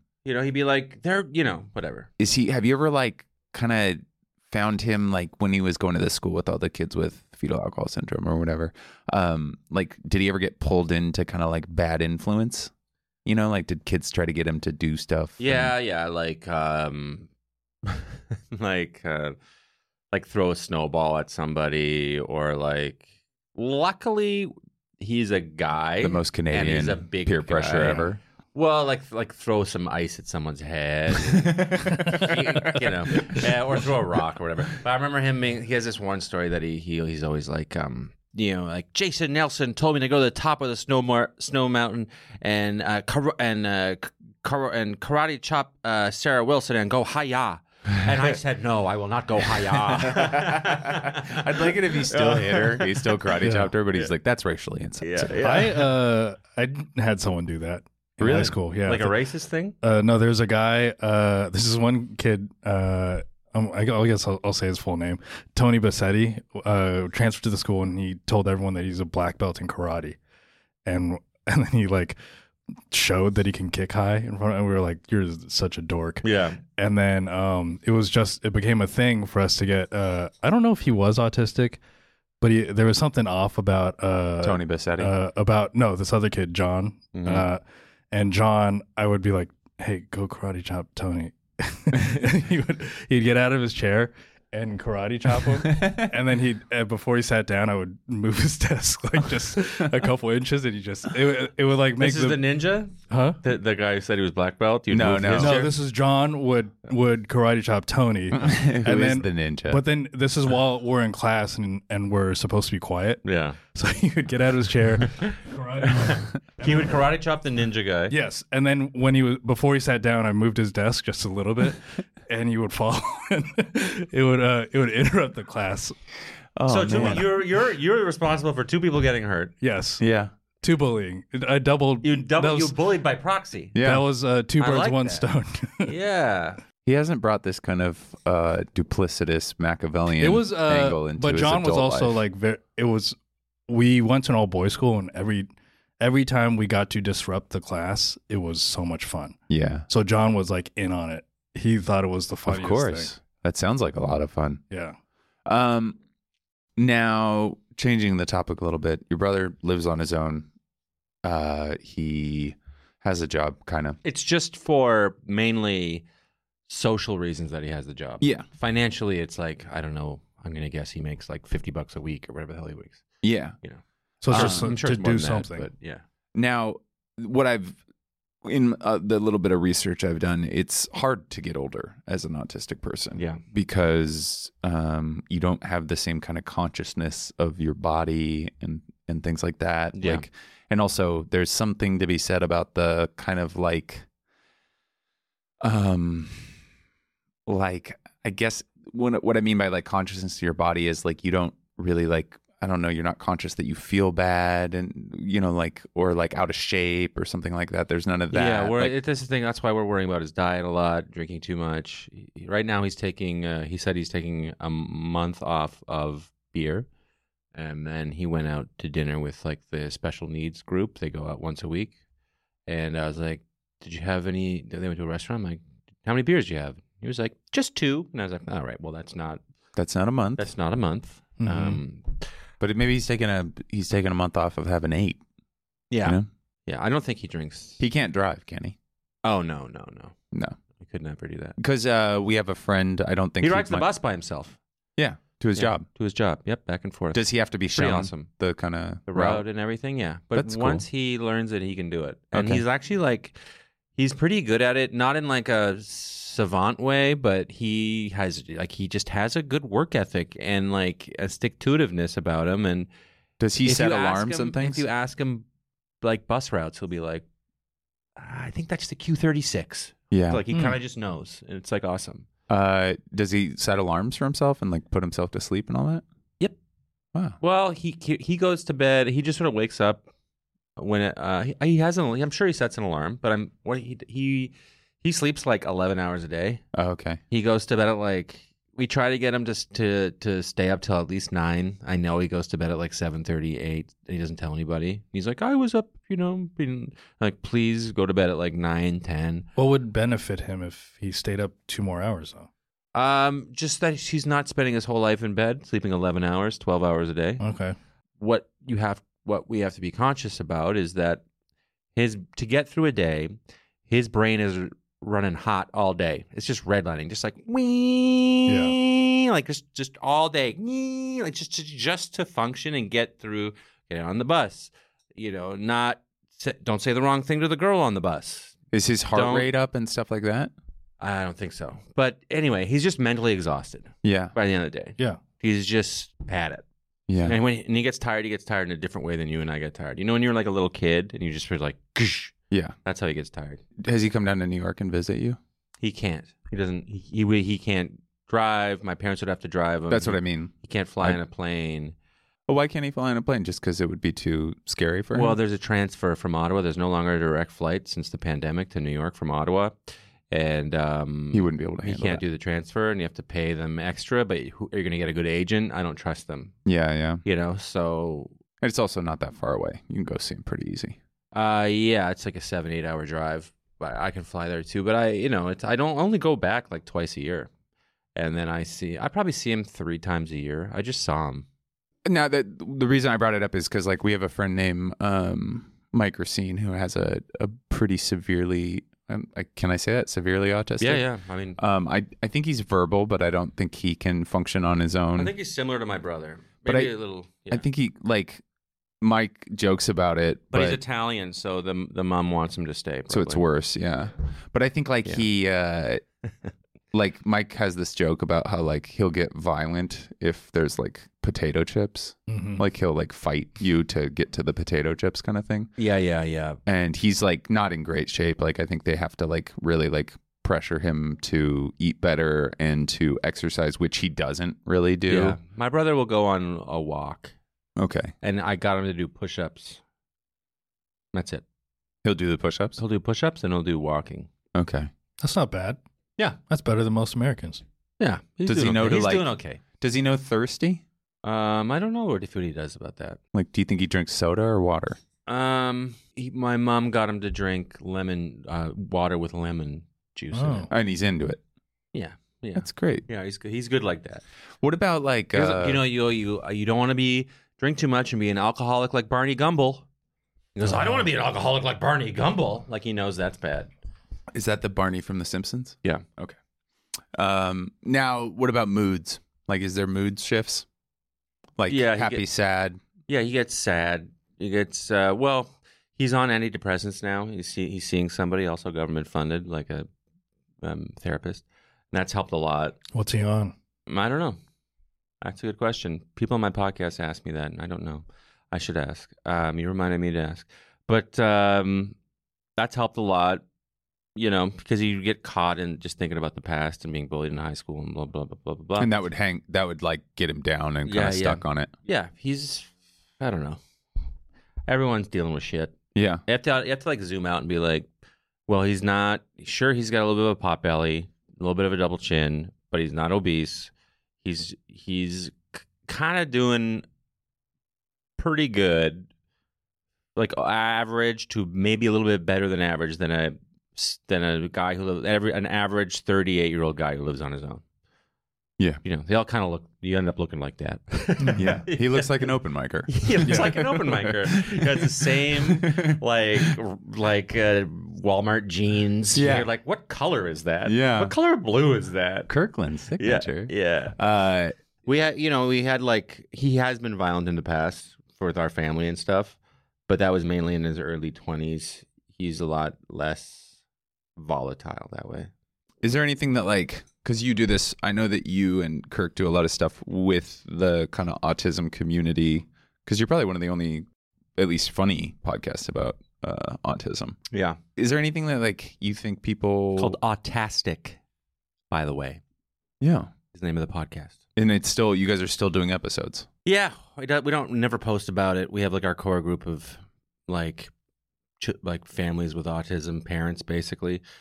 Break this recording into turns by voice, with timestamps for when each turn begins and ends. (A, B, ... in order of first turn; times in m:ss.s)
0:00.2-0:02.1 A
0:02.2-0:12.7 B
0:13.2-0:15.7 B
0:15.4-0:17.3 A
0:17.8-0:19.4 A
0:20.1-0:53.3 A
0:26.0-0:28.2 B
0:31.4-0:33.4 B
0:49.9-0:55.3 B
0:53.4-0:53.7 C
0:55.0-0:55.9 A
0:55.4-0:59.1 C
0:58.2-0:58.6 B
0:58.8-0:59.8 A
0:59.8-1:10.2 C
1:10.8-1:12.2 C
1:12.9-1:21.8 C
1:16.2-1:16.6 A
1:22.4-1:42.4 C
1:24.4-1:25.1 B
1:27.1-1:27.5 A
1:35.6-1:36.2 B
1:42.0-1:45.7 A
1:43.1-1:43.4 C
1:44.9-1:45.7 B
1:45.3-1:53.2 C
1:48.3-1:49.8 B
1:53.2-1:53.6 A
1:53.7-1:57.0 C
1:55.2-1:58.2 A
1:58.1-2:05.9 C
2:06.6-2:07.3 B
2:06.7-2:09.5 A
2:06.9-2:07.2 C
2:09.6-2:10.0 C
2:10.0-2:10.3 B
2:10.6-2:12.7 C
2:12.0-2:13.7 A
2:13.7-2:14.0 B
2:13.8-2:15.9 C
2:14.6-2:15.2 A
2:15.8-2:16.6 A
2:16.8-2:22.2 B
2:20.2-2:23.2 C
2:23.7-2:29.4 C
2:29.5-2:29.8 B
2:29.9-2:33.1 C
2:32.5-2:34.6 B
2:34.7-2:35.0 C
2:35.4-2:36.0 B
2:36.8-2:40.5 B
2:41.2-2:44.0 B
2:44.0-2:46.0 A
2:46.7-2:53.0 A
2:48.2-2:48.4 B
2:53.2-2:53.5 B
2:53.6-2:56.0 A
2:54.2-2:55.7 C
2:54.3-2:54.7 B
2:56.3-2:57.8 B
2:58.4-3:14.0 B
3:09.9-3:10.2 A
3:15.6-3:16.5 B
3:17.4-3:28.9 B
3:28.3-3:36.9 A
3:37.5-3:41.9 A
3:42.7-3:49.4 A
3:49.8-3:50.4 B
3:50.4-3:52.2 A
3:51.4-3:51.8 C
3:52.6-3:55.2 B
3:55.9-3:57.8 A
3:57.8-3:58.8 B
3:59.2-4:00.1 A
4:00.8-4:01.6 A
4:01.6-4:03.8 B
4:03.4-4:04.6 A
4:05.0-4:05.8 B
4:05.6-4:08.3 A
4:07.1-4:09.4 B
4:09.1-4:13.4 A
4:10.4-4:10.8 B
4:12.3-4:12.6 B
4:14.0-4:22.9 A
4:23.4-4:24.8 B
4:23.6-4:25.4 A
4:26.0-4:27.2 A
4:28.2-4:32.2 A
4:30.1-4:30.4 B
4:32.5-4:36.0 B
4:37.4-4:40.0 A
4:40.8-4:46.6 A
4:46.7-4:47.2 B
4:47.3-4:59.5 A
4:59.6-5:02.5 C
5:02.9-5:07.4 A
5:07.4-5:07.8 C
5:08.2-5:11.2 A
5:12.0-5:13.3 A
5:13.9-5:28.6 A
5:18.5-5:18.8 C
5:28.7-5:30.5 B
5:29.1-5:29.5 A
5:31.0-5:36.6 A
5:34.0-5:34.3 B
5:37.1-5:37.4 B
5:37.2-5:43.6 A
5:43.8-5:45.4 B
5:45.8-5:51.9 A
5:49.9-5:51.2 B
5:52.5-5:55.4 B
5:55.1-5:59.8 A
6:00.3-6:06.5 A
6:01.3-6:02.2 B
6:06.6-6:07.2 B
6:07.2-6:08.3 A
6:08.6-6:11.0 B
6:11.3-6:17.5 A
6:18.2-6:21.4 A
6:22.0-6:31.0 B
6:30.8-6:31.6 A
6:31.6-6:35.3 B
6:35.2-6:37.6 A
6:36.6-6:36.9 B
6:37.5-6:38.4 B
6:39.0-6:40.8 B
6:40.5-6:43.4 A
6:43.1-6:46.0 B
6:46.9-6:55.7 B
6:52.3-6:52.6 C
6:55.8-6:56.6 A
6:56.6-7:05.4 B
7:05.1-7:07.3 A
7:07.8-7:08.1 B
7:08.2-7:09.8 A
7:11.1-7:11.4 A
7:12.0-7:12.8 B
7:12.8-7:14.3 A
7:14.5-7:14.9 B
7:15.2-7:15.8 C
7:16.5-7:17.6 C
7:18.0-7:19.6 A
7:18.4-7:20.8 B
7:21.2-7:23.2 A
7:23.3-7:25.0 B
7:25.3-7:30.7 A
7:30.3-7:30.7 C
7:30.7-7:31.4 B
7:31.9-7:34.2 A
7:32.6-7:33.0 B
7:34.6-7:35.8 B
7:35.3-7:39.8 A
7:40.5-7:43.7 A
7:40.6-7:41.1 C
7:44.3-7:46.4 B
7:47.1-7:50.6 B
7:51.6-7:52.8 B
7:51.7-7:52.2 A
7:53.1-7:59.9 A
8:00.6-8:02.8 A
8:02.9-8:03.5 C
8:03.9-8:04.4 A
8:05.2-8:12.0 A
8:12.6-8:13.4 A
8:14.2-8:18.9 A
8:18.8-8:21.7 B
8:20.8-8:23.6 A
8:24.7-8:27.9 A
8:25.9-8:26.2 B
8:28.5-8:33.7 A
8:34.2-8:36.8 A
8:38.2-8:39.1 A
8:40.2-8:47.6 A
8:48.8-8:52.3 A
8:51.4-8:56.5 B
8:52.9-9:02.3 A
8:59.1-8:59.5 B
9:00.6-9:01.1 B
9:02.3-9:04.5 B
9:03.0-9:04.0 A
9:04.8-9:09.4 A
9:09.9-9:13.5 A
9:14.2-9:15.3 A
9:15.8-9:23.8 B
9:24.4-9:27.2 B
9:27.3-9:27.6 A
9:27.8-9:30.0 B
9:29.8-9:31.0 A
9:31.7-9:32.2 A
9:32.8-9:33.1 B
9:33.3-9:34.2 A
9:34.4-9:36.3 B
9:36.4-9:40.7 A
9:41.4-9:44.0 A